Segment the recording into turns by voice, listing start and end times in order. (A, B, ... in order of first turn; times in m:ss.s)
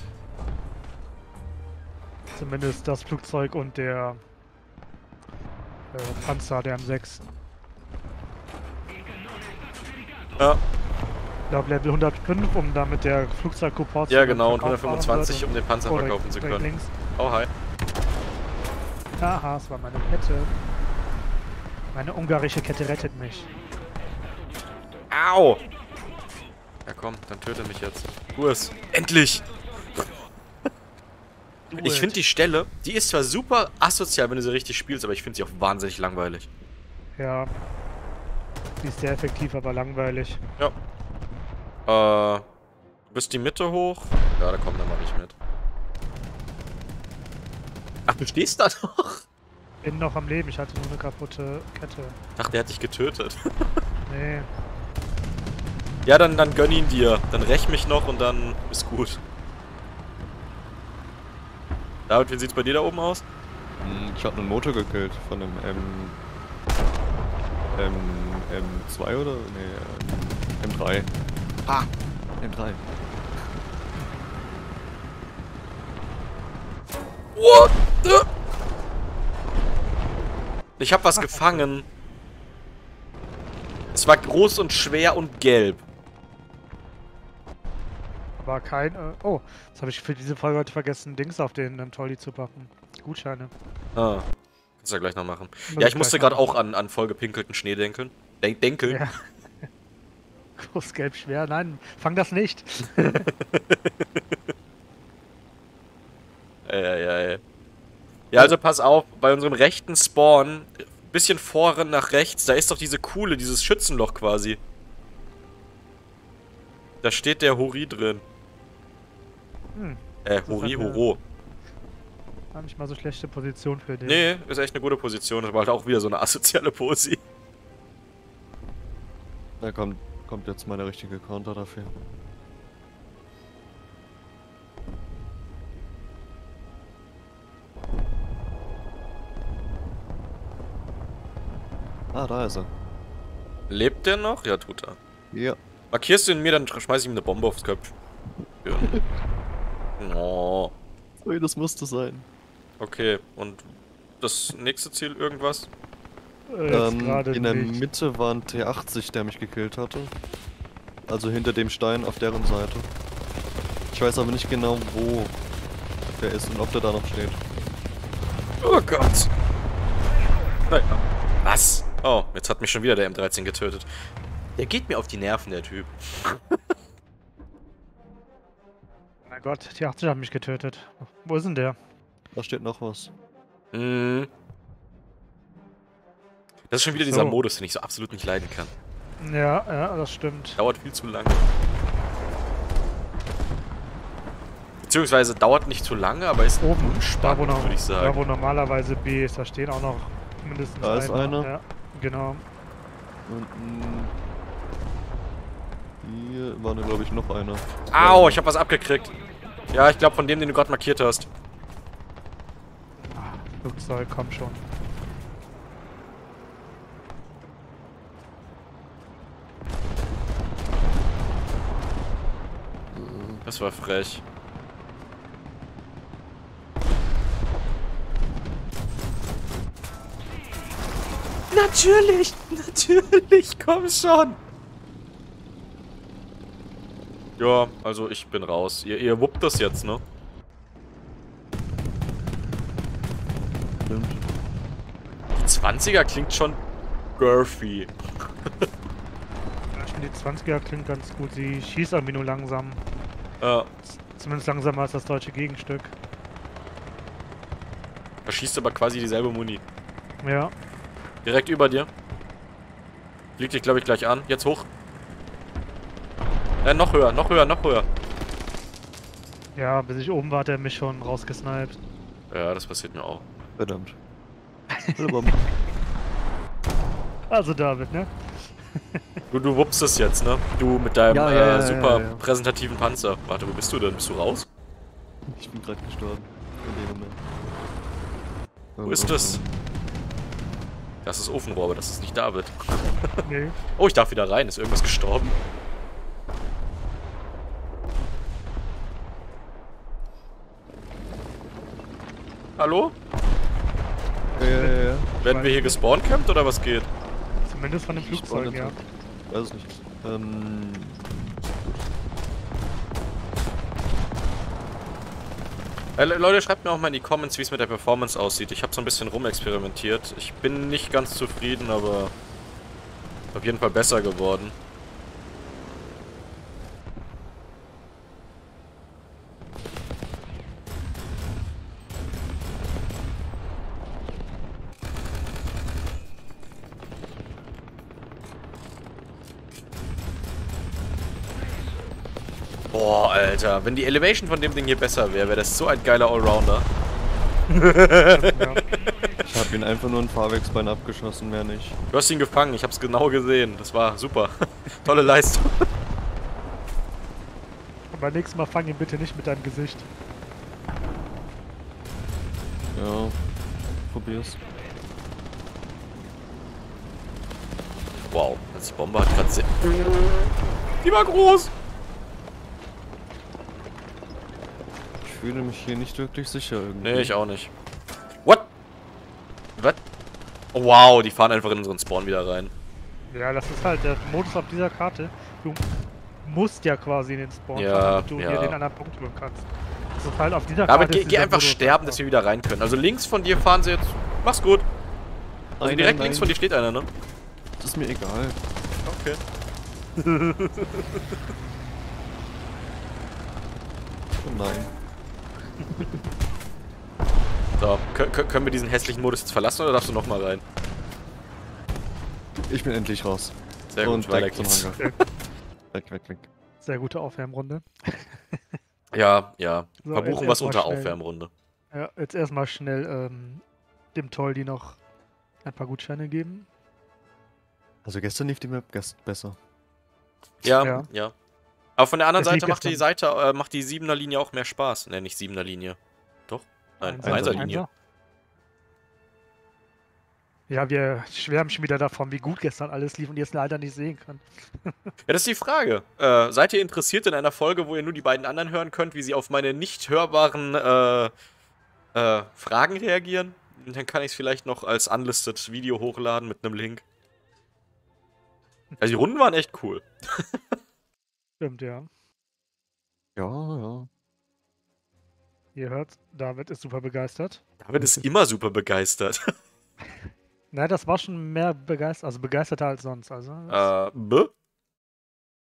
0:02.4-0:04.2 A
0:05.9-0:07.2 A
0:11.5-0:17.0 A
0:14.1-0:17.5 B
0:19.2-0:20.6 A
0:21.9-0:23.5 A
0:25.1-0:25.6 B
0:26.9-0:29.5 B
0:31.7-0:32.2 A
0:31.8-0:36.5 B
0:37.2-0:37.5 A
0:38.8-0:40.4 A
0:41.9-0:42.5 B
0:43.1-0:45.3 B
0:48.1-0:49.2 B
0:49.8-0:52.2 A
0:52.4-0:53.8 B
0:54.1-0:54.5 A
0:56.0-0:59.2 B
1:02.1-1:03.2 B
1:03.8-1:06.2 C
1:07.7-1:11.1 C
1:12.4-1:12.8 C
1:14.0-1:14.3 A
1:17.4-1:18.3 B
1:20.8-1:21.8 B
1:21.2-1:21.6 A
1:23.9-1:25.8 B
1:28.4-1:33.5 A
1:34.0-1:34.2 B
1:34.8-1:39.0 B
1:35.7-1:36.5 A
1:38.9-1:39.1 A
1:40.6-1:43.3 A
1:43.0-1:44.2 B
1:46.7-1:47.4 B
1:48.3-1:54.6 B
1:57.0-1:58.2 B
1:59.8-2:01.0 A
2:00.2-2:01.2 B
2:02.5-2:04.3 A
2:04.0-2:07.2 B
2:09.6-2:12.0 C
2:22.1-2:22.7 C
2:23.7-2:25.0 B
2:25.3-2:25.6 C
2:25.9-2:28.0 B
2:28.6-2:29.0 B
2:30.0-2:30.7 B
2:31.2-2:32.3 C
2:32.8-2:35.7 B
2:36.5-2:37.8 A
2:36.7-2:40.1 C
2:41.1-2:42.9 C
2:43.9-2:45.4 C
2:46.1-2:47.4 C
2:48.6-2:49.3 B
2:50.7-2:53.9 B
2:54.6-2:56.6 B
2:59.3-3:01.8 A
3:02.3-3:03.1 C
3:03.7-3:04.3 B
3:06.7-3:08.7 B
3:07.0-3:07.4 A
3:09.2-3:10.6 A
3:10.6-3:11.5 B
3:14.8-3:18.2 B
3:16.6-3:22.4 A
3:20.8-3:21.5 C
3:23.3-3:24.1 C
3:26.0-3:28.4 C
3:27.9-3:29.1 B
3:29.7-3:31.3 B
3:33.1-3:34.6 A
3:42.9-3:43.4 C
3:43.4-3:44.2 B
3:51.5-3:54.4 B
3:57.4-4:00.0 B
4:03.8-4:04.2 C
4:05.4-4:06.6 B
4:07.2-4:07.9 B
4:09.7-4:12.8 A
4:13.4-4:13.7 B
4:13.9-4:15.9 A
4:18.3-4:19.6 B
4:20.2-4:20.5 A
4:21.2-4:21.9 B
4:23.4-4:24.7 B
4:26.6-4:27.9 B
4:29.6-4:31.8 A
4:32.3-4:33.2 B
4:33.6-4:34.0 C
4:34.7-4:35.4 A
4:35.0-4:35.4 C
4:37.3-4:39.2 A
4:39.3-4:44.5 B
4:41.1-4:42.2 C
4:45.3-4:47.2 C
4:48.8-4:49.5 C
4:48.8-4:49.4 B
4:51.0-4:53.2 B
4:53.2-4:53.6 A
4:53.8-4:55.4 B
5:02.6-5:02.9 B
5:04.3-5:05.8 A
5:04.4-5:05.1 C
5:05.2-5:06.9 B
5:07.5-5:08.8 A
5:08.0-5:08.8 C
5:09.3-5:11.1 C
5:16.0-5:22.1 B
5:23.3-5:24.6 B
5:42.7-5:46.7 B
5:47.5-5:48.4 B
5:48.1-5:48.6 A
5:49.3-5:51.8 C
5:51.9-5:55.7 B
5:57.9-5:59.9 A
6:02.7-6:03.2 C
6:03.9-6:04.4 C
6:08.1-6:11.5 B
6:15.0-6:17.1 C
6:16.8-6:17.5 B
6:18.2-6:18.5 B
6:20.5-6:22.5 B
6:23.1-6:25.6 A
6:26.2-6:32.0 A
6:27.6-6:28.6 B
6:30.7-6:34.6 B
6:35.6-6:36.4 C
6:35.6-6:36.9 B
6:37.6-6:38.4 C
6:38.8-6:39.2 B
6:40.0-6:41.0 B
6:44.2-6:44.7 C
6:47.6-6:50.4 B
6:52.5-6:54.9 C
6:53.7-6:54.7 B
6:55.7-6:56.3 C
6:56.6-6:58.6 A
6:58.9-7:01.3 B
6:59.8-7:01.0 A
7:01.7-7:03.4 A
7:03.9-7:04.8 A
7:05.4-7:06.5 A
7:07.8-7:09.4 C
7:10.4-7:11.1 B
7:10.6-7:10.9 A
7:11.8-7:15.8 B
7:12.2-7:12.8 A
7:16.3-7:17.6 B
7:16.8-7:17.7 A
7:17.0-7:17.6 C
7:20.5-7:24.9 A
7:25.1-7:31.1 B
7:31.9-7:36.8 B
7:38.8-7:40.4 B
7:41.4-7:41.9 A
7:43.2-7:43.9 C
7:45.6-7:47.4 A
7:47.6-7:49.3 B
7:50.5-7:53.7 A
7:53.5-7:54.3 B